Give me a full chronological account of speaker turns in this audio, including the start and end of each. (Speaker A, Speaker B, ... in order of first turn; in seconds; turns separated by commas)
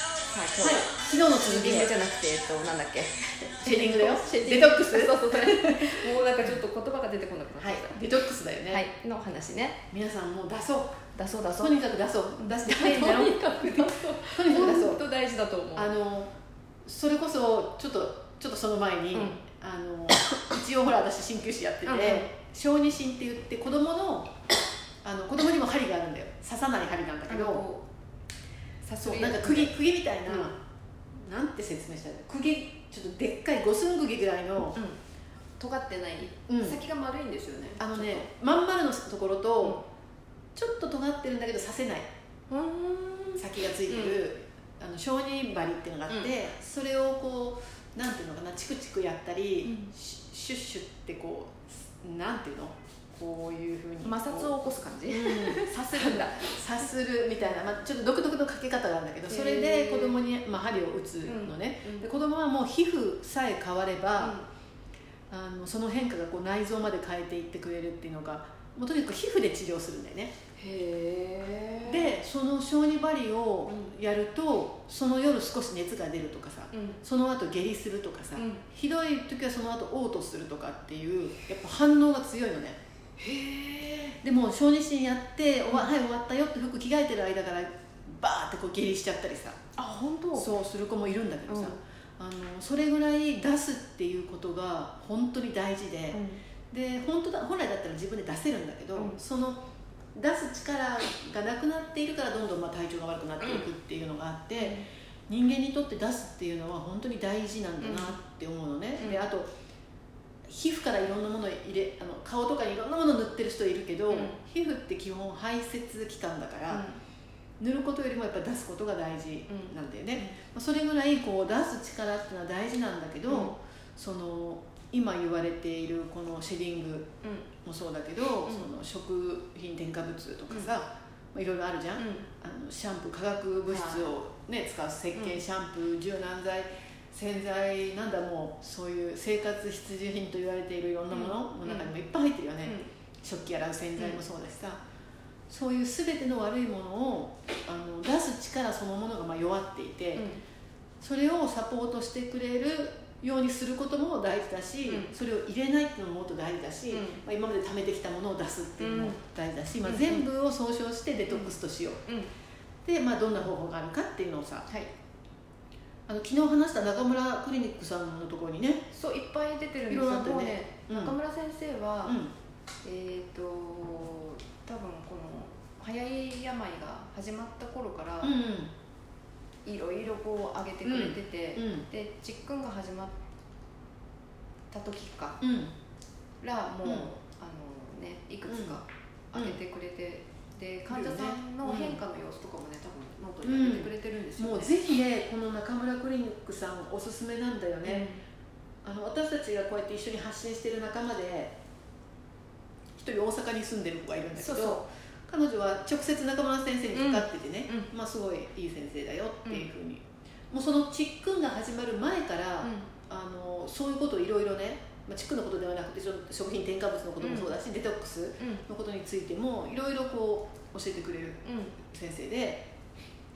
Speaker A: 0.3-8.1, Speaker B: 0.6-1.9, Speaker B: 3.6-6.5, Speaker B: 7.6-8.8, Speaker A: 8.7-9.8, Speaker B: 9.9-11.0, Speaker A: 11.1-11.8, Speaker B: 11.6-15.0, Speaker A: 12.4-15.9, Speaker B: 15.7-16.3, Speaker B: 16.8-24.3, Speaker A: 19.1-19.4, Speaker A: 21.8-22.3, Speaker B: 25.0-27.6, Speaker A: 27.3-27.8, Speaker A: 28.8-29.7, Speaker B: 29.0-30.6, Speaker B: 31.2-34.8, Speaker A: 35.6-38.3, Speaker B: 36.5-36.8, Speaker B: 37.8-39.8, Speaker B: 40.5-42.1, Speaker A: 42.5-44.2, Speaker B: 43.4-54.5, Speaker A: 49.6-49.9, Speaker A: 54.0-56.5, Speaker B: 55.1-64.4, Speaker A: 59.3-60.2, Speaker A: 61.2-62.1, Speaker A: 64.2-64.5, Speaker B: 65.3-70.3, Speaker A: 70.6-72.1, Speaker B: 71.8-82.8, Speaker A: 76.7-77.0, Speaker A: 78.3-78.6, Speaker A: 83.2-84.2, Speaker B: 84.2-89.6, Speaker A: 89.8-90.5, Speaker B: 90.3-99.6, Speaker A: 91.5-91.8, Speaker A: 96.1-96.4, Speaker B: 100.1-109.5, Speaker A: 103.4-103.7, Speaker A: 104.6-104.8, Speaker A: 107.8-108.2, Speaker A: 109.0-109.2, Speaker B: 110.5-116.8, Speaker A: 114.1-114.4, Speaker A: 116.7-117.0, Speaker B: 117.6-127.1, Speaker A: 119.5-119.7, Speaker A: 123.3-123.5, Speaker A: 127.2-127.5, Speaker B: 127.6-144.8, Speaker A: 132.0-132.2, Speaker A: 133.7-134.1, Speaker A: 141.1-141.9, Speaker B: 145.5-150.3, Speaker A: 150.2-150.4, Speaker B: 151.0-162.0, Speaker A: 154.8-155.1, Speaker A: 156.9-157.2, Speaker A: 158.8-159.2, Speaker A: 159.8-160.3, Speaker A: 161.3-162.3, Speaker B: 162.8-164.7, Speaker B: 166.1-168.8, Speaker A: 168.9-172.2, Speaker B: 169.9-171.1, Speaker B: 172.1-172.3, Speaker A: 172.8-178.3, Speaker B: 178.2-178.7, Speaker A: 179.6-183.1, Speaker B: 180.8-181.8, Speaker A: 184.7-185.4, Speaker B: 185.4-185.7, Speaker A: 186.4-194.7, Speaker B: 186.8-187.1, Speaker B: 188.5-188.8, Speaker B: 190.9-192.0, Speaker B: 193.4-198.1, Speaker A: 197.8-198.2, Speaker B: 198.8-201.5, Speaker B: 203.0-222.6, Speaker A: 204.3-204.8, Speaker A: 206.9-207.9, Speaker A: 212.6-212.9, Speaker A: 217.2-217.5, Speaker A: 221.4-221.8